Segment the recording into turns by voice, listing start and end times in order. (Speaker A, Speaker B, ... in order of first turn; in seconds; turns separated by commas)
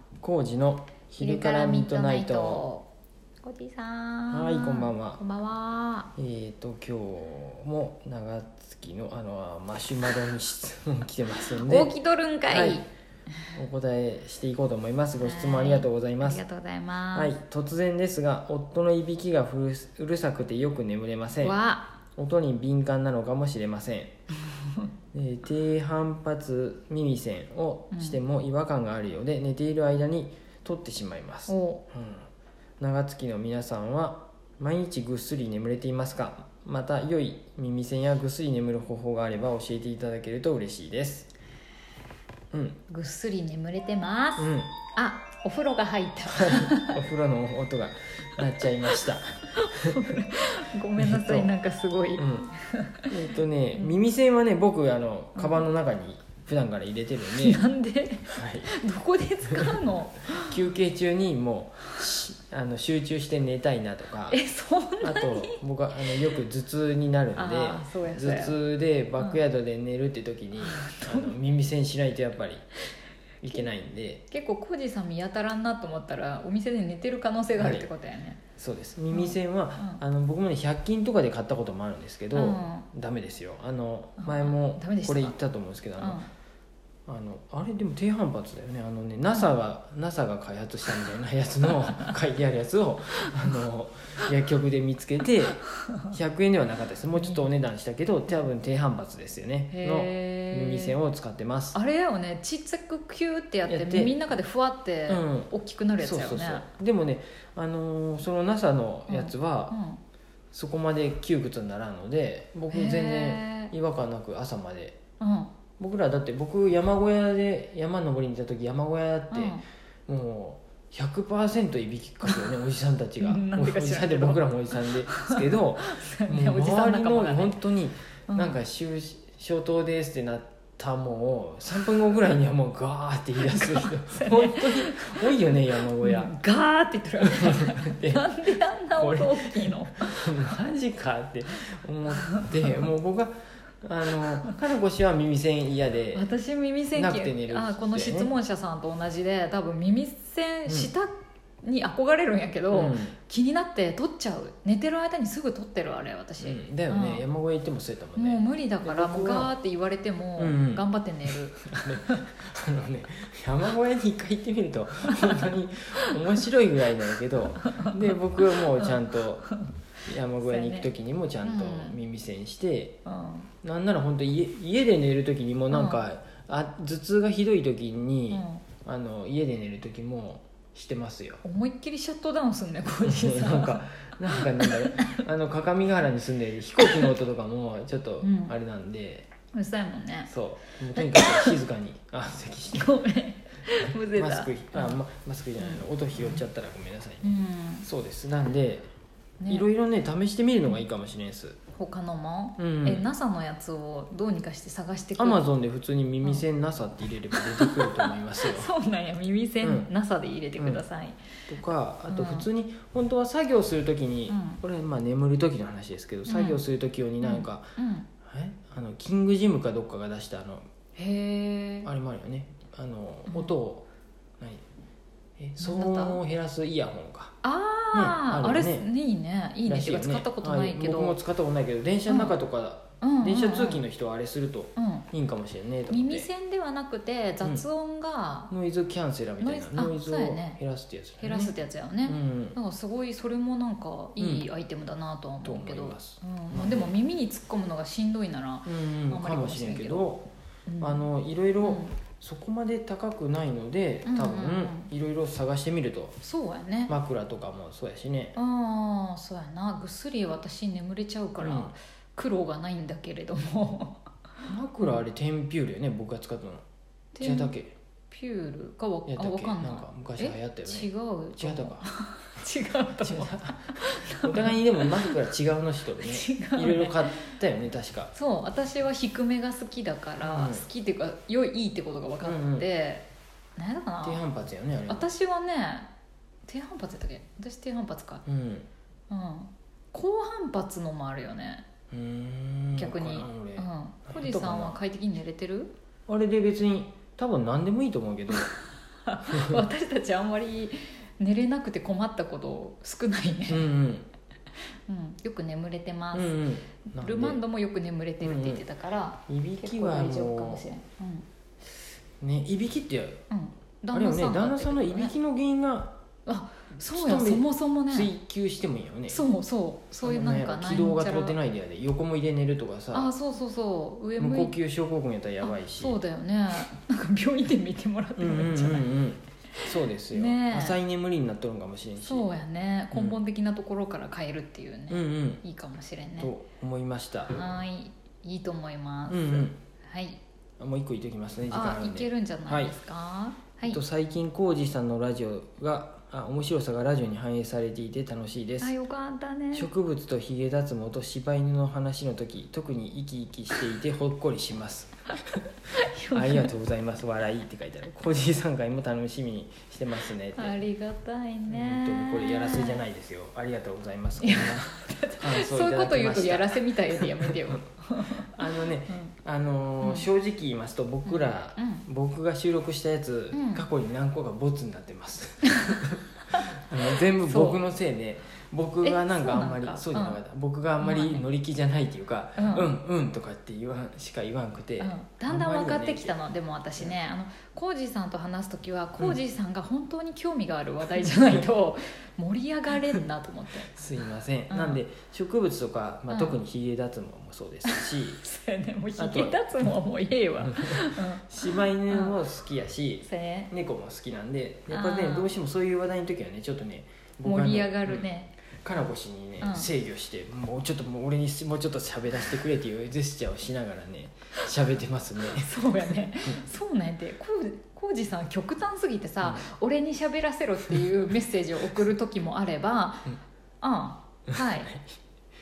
Speaker A: 0.2-2.6, Speaker B: 1.2-2.9, Speaker B: 3.4-6.1, Speaker A: 4.3-5.2, Speaker A: 6.2-11.9, Speaker B: 11.5-12.9, Speaker A: 12.5-12.8, Speaker A: 13.5-16.4, Speaker B: 15.2-17.3, Speaker A: 17.1-21.6, Speaker B: 21.4-21.9, Speaker A: 22.1-24.1, Speaker A: 25.1-32.3, Speaker B: 27.9-28.2, Speaker B: 31.5-31.8, Speaker A: 32.8-41.3, Speaker A: 42.5-42.8, Speaker B: 42.9-47.0, Speaker A: 44.4-44.7, Speaker A: 46.3-50.2, Speaker B: 49.5-53.1, Speaker A: 51.0-51.5, Speaker A: 52.2-52.5, Speaker A: 53.1-57.6, Speaker B: 55.4-55.6, Speaker B: 57.3-60.5, Speaker A: 58.2-58.7, Speaker A: 59.5-64.4, Speaker B: 64.3-66.3, Speaker A: 65.0-72.7, Speaker B: 67.3-68.6, Speaker B: 70.6-71.3, Speaker A: 73.4-74.2, Speaker B: 74.3-78.4, Speaker A: 77.6-77.9, Speaker A: 78.6-86.2, Speaker B: 79.1-80.0, Speaker B: 82.3-82.9, Speaker B: 84.2-85.3, Speaker B: 86.0-86.3, Speaker A: 87.0-101.8, Speaker B: 97.2-97.4, Speaker B: 99.7-100.9, Speaker B: 101.7-106.7, Speaker A: 103.7-104.2, Speaker A: 105.1-109.8, Speaker B: 109.1-110.0, Speaker A: 110.5-115.0, Speaker B: 112.7-113.7, Speaker B: 115.2-115.5, Speaker A: 115.8-136.3, Speaker B: 119.3-119.6, Speaker B: 122.2-122.5, Speaker B: 123.2-127.6, Speaker B: 128.3-128.6, Speaker B: 133.4-135.3, Speaker B: 136.0-140.5, Speaker A: 137.2-138.3, Speaker A: 139.0-146.3, Speaker B: 142.2-142.7, Speaker B: 146.1-157.2, Speaker A: 146.9-148.3, Speaker A: 150.7-150.9, Speaker A: 152.7-153.2, Speaker A: 156.4-159.5, Speaker B: 158.2-162.2, Speaker A: 160.4-160.8, Speaker A: 161.6-169.5, Speaker B: 165.1-165.4, Speaker B: 167.7-167.9, Speaker B: 168.6-168.9, Speaker B: 169.4-169.7, Speaker A: 170.1-173.0, Speaker B: 170.4-170.9, Speaker B: 171.4-172.0, Speaker B: 173.1-173.5, Speaker A: 173.6-181.4, Speaker B: 175.7-176.0, Speaker B: 178.3-178.6, Speaker B: 181.4-185.2, Speaker A: 183.0-189.3, Speaker B: 186.8-187.1, Speaker B: 188.2-188.5, Speaker B: 189.5-190.3, Speaker A: 190.3-193.0, Speaker B: 190.9-191.6, Speaker B: 192.7-195.0, Speaker A: 193.7-198.9, Speaker B: 195.6-195.8, Speaker B: 197.2-197.9, Speaker B: 199.4-199.6, Speaker A: 199.5-201.6, Speaker B: 201.7-205.4, Speaker A: 202.6-203.1, Speaker A: 205.2-208.7, Speaker B: 207.3-211.2, Speaker A: 209.6-209.9, Speaker A: 210.6-210.8, Speaker A: 211.5-217.7, Speaker B: 212.1-212.5, Speaker B: 214.3-214.6, Speaker B: 216.3-216.6, Speaker B: 217.2-218.1, Speaker A: 218.2-220.7, Speaker B: 220.9-221.9, Speaker A: 221.8-223.9, Speaker B: 223.3-223.5, Speaker A: 225.4-227.3, Speaker B: 225.6-226.2, Speaker B: 227.4-231.2, Speaker A: 227.9-228.8, Speaker A: 229.7-236.3, Speaker B: 232.1-232.3, Speaker B: 233.0-233.8, Speaker B: 234.8-235.1, Speaker B: 235.9-238.5, Speaker A: 238.5-241.5, Speaker B: 239.4-240.6, Speaker B: 241.2-250.1, Speaker A: 242.1-242.6, Speaker A: 244.2-244.5, Speaker A: 245.4-246.9, Speaker A: 248.6-250.3, Speaker B: 250.7-251.1, Speaker A: 250.8-256.2, Speaker B: 251.6-252.0, Speaker B: 254.0-254.9, Speaker B: 256.2-256.9, Speaker A: 256.9-258.4, Speaker B: 258.3-264.1, Speaker A: 261.4-261.7, Speaker A: 264.4-266.6, Speaker B: 267.1-267.5, Speaker A: 267.2-267.7, Speaker B: 268.1-275.1, Speaker A: 269.1-271.9, Speaker A: 273.0-278.1, Speaker B: 276.0-277.3, Speaker B: 278.1-283.0, Speaker A: 280.2-280.6, Speaker A: 282.2-282.7, Speaker B: 283.6-284.2, Speaker A: 284.0-285.1, Speaker B: 284.9-285.9, Speaker B: 286.4-288.2, Speaker A: 288.2-288.7, Speaker B: 289.1-291.6, Speaker A: 291.9-294.8, Speaker B: 292.8-295.7, Speaker A: 296.1-298.5, Speaker B: 298.3-303.7, Speaker A: 299.2-299.6, Speaker A: 303.5-304.1, Speaker B: 304.9-311.2, Speaker A: 306.1-307.4, Speaker A: 308.2-308.6, Speaker A: 309.3-310.6, Speaker A: 312.2-313.2, Speaker B: 313.3-315.1, Speaker A: 313.9-316.0, Speaker B: 316.2-318.1, Speaker A: 316.9-319.2, Speaker B: 319.1-321.4, Speaker A: 320.0-323.1, Speaker B: 322.9-324.5, Speaker A: 324.2-326.0, Speaker B: 325.4-328.9, Speaker A: 328.2-332.3, Speaker B: 330.1-330.8, Speaker B: 332.0-336.3, Speaker A: 332.9-333.2, Speaker A: 334.9-335.4, Speaker A: 336.2-337.5, Speaker B: 337.3-340.2, Speaker A: 339.1-339.6, Speaker A: 340.6-342.7, Speaker B: 341.5-343.8, Speaker A: 343.7-348.7, Speaker B: 348.6-349.7, Speaker A: 349.5-355.4, Speaker B: 355.7-356.5, Speaker A: 356.1-360.6, Speaker B: 360.4-362.8, Speaker A: 361.5-367.6, Speaker B: 364.2-368.3, Speaker A: 368.2-376.0, Speaker B: 369.8-370.1, Speaker B: 371.0-371.9, Speaker B: 373.3-373.6, Speaker B: 375.6-376.4, Speaker A: 376.6-386.1, Speaker B: 377.0-377.6, Speaker B: 378.8-380.2, Speaker B: 380.8-381.2, Speaker B: 382.4-382.7, Speaker B: 384.8-393.7, Speaker A: 390.9-391.4, Speaker A: 393.7-398.2, Speaker B: 394.5-394.8, Speaker B: 396.1-396.4, Speaker B: 397.6-402.2, Speaker A: 399.0-399.4, Speaker A: 400.4-408.1, Speaker B: 403.0-403.5, Speaker B: 404.7-405.3, Speaker B: 407.2-408.3, Speaker A: 408.6-416.4, Speaker B: 409.4-409.7, Speaker B: 415.2-424.7, Speaker A: 424.4-424.8